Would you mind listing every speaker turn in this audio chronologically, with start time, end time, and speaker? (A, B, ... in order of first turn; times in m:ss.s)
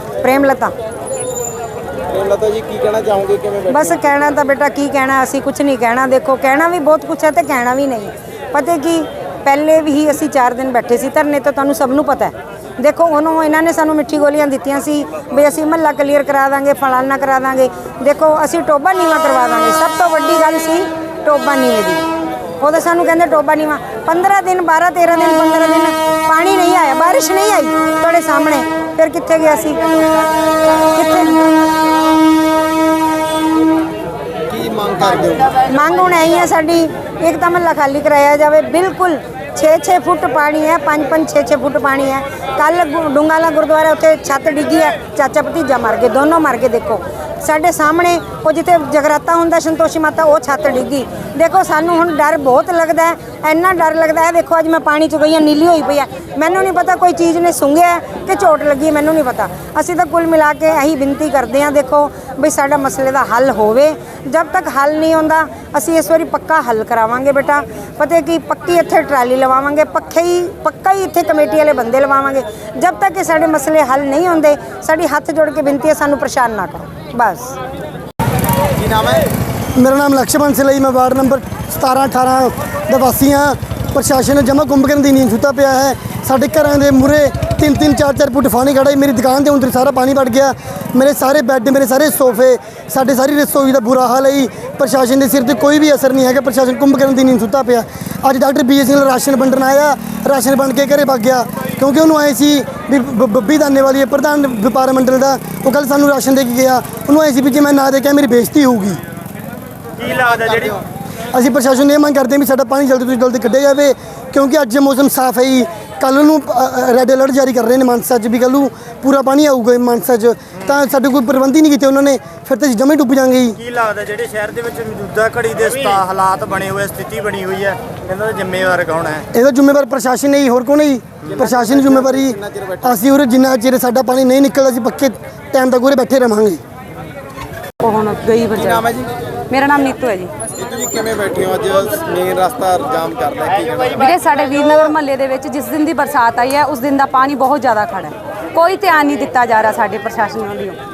0:00.2-0:00.7 A
0:02.0-0:03.7 B
0:03.7-0:22.0 A
0:22.6-0:30.0 A
0:30.9-0:31.4 A
0:34.5-0:35.6 B
0:35.5-1:17.6 A
1:18.8-1:19.2 B
1:19.8-1:49.0 C
1:50.0-1:50.8 D
1:50.2-1:50.8 B
1:51.3-2:03.6 C
2:03.6-2:09.3 D
2:09.3-2:16.6 C
2:17.8-2:18.9 E
2:18.8-2:19.1 B
2:19.5-2:20.3 E
2:20.5-2:24.0 B
2:23.9-2:30.8 E